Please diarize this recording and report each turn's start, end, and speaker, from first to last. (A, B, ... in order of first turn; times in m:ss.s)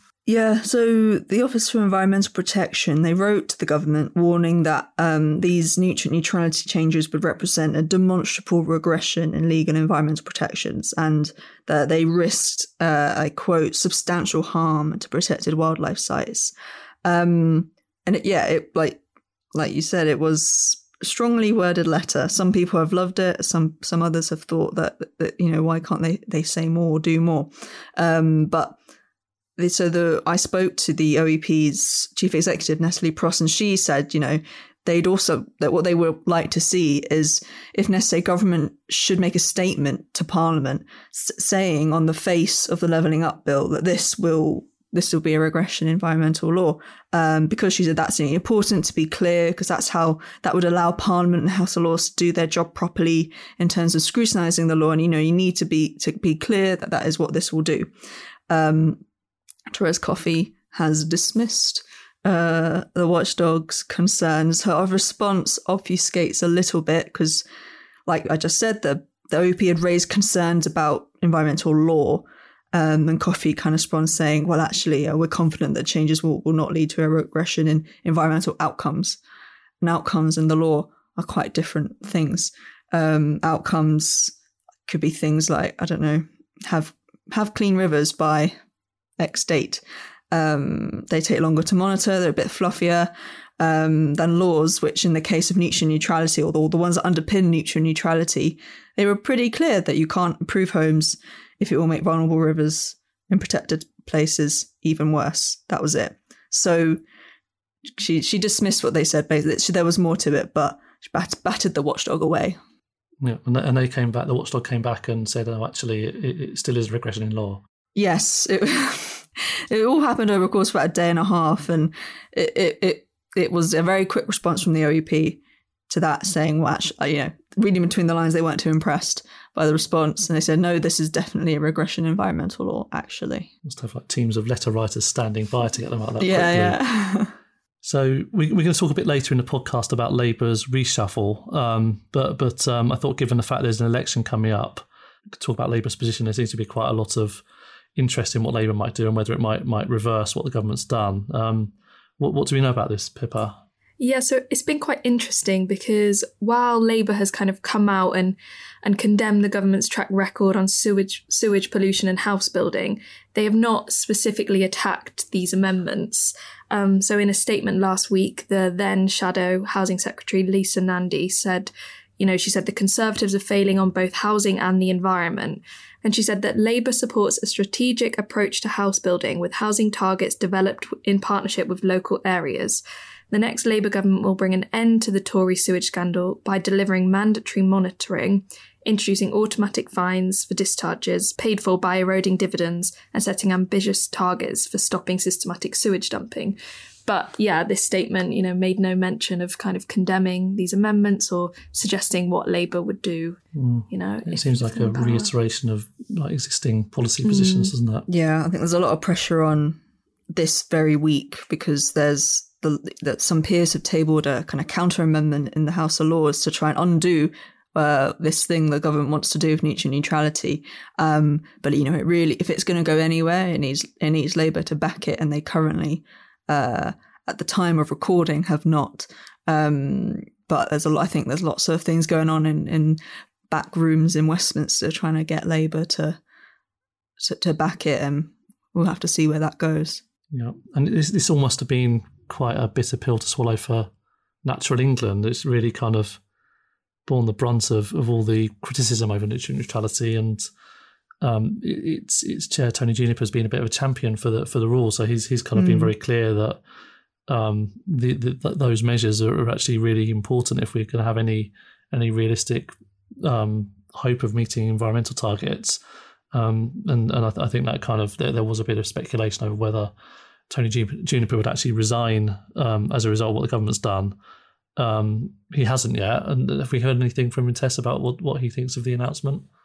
0:00.3-0:16.5 A
0:17.0-0:19.0 A
0:19.5-0:28.8 A
0:29.6-0:57.9 A
0:58.5-0:59.0 A
0:59.7-1:07.4 A
1:08.1-1:19.2 A
1:19.8-1:24.3 A
1:24.9-1:28.6 A
1:29.2-1:47.0 A
1:47.9-1:52.6 A
1:53.2-1:57.6 B
1:58.0-2:13.5 A
2:13.6-2:16.8 B
2:16.2-2:17.3 A
2:17.8-2:27.4 B
2:28.0-2:33.6 B
2:34.0-3:23.4 C
3:23.6-3:28.1 B
3:23.9-3:25.3 C
3:27.3-3:27.7 C
3:28.1-3:29.8 A
3:30.3-3:56.2 A
3:57.2-4:00.0 A
4:00.3-4:03.9 B
4:04.4-4:06.2 B
4:07.1-4:10.4 B
4:11.2-4:16.6 B
4:15.6-4:15.9 A
4:17.3-4:25.8 B
4:26.3-4:29.9 B
4:30.5-4:34.2 B
4:34.8-4:39.5 B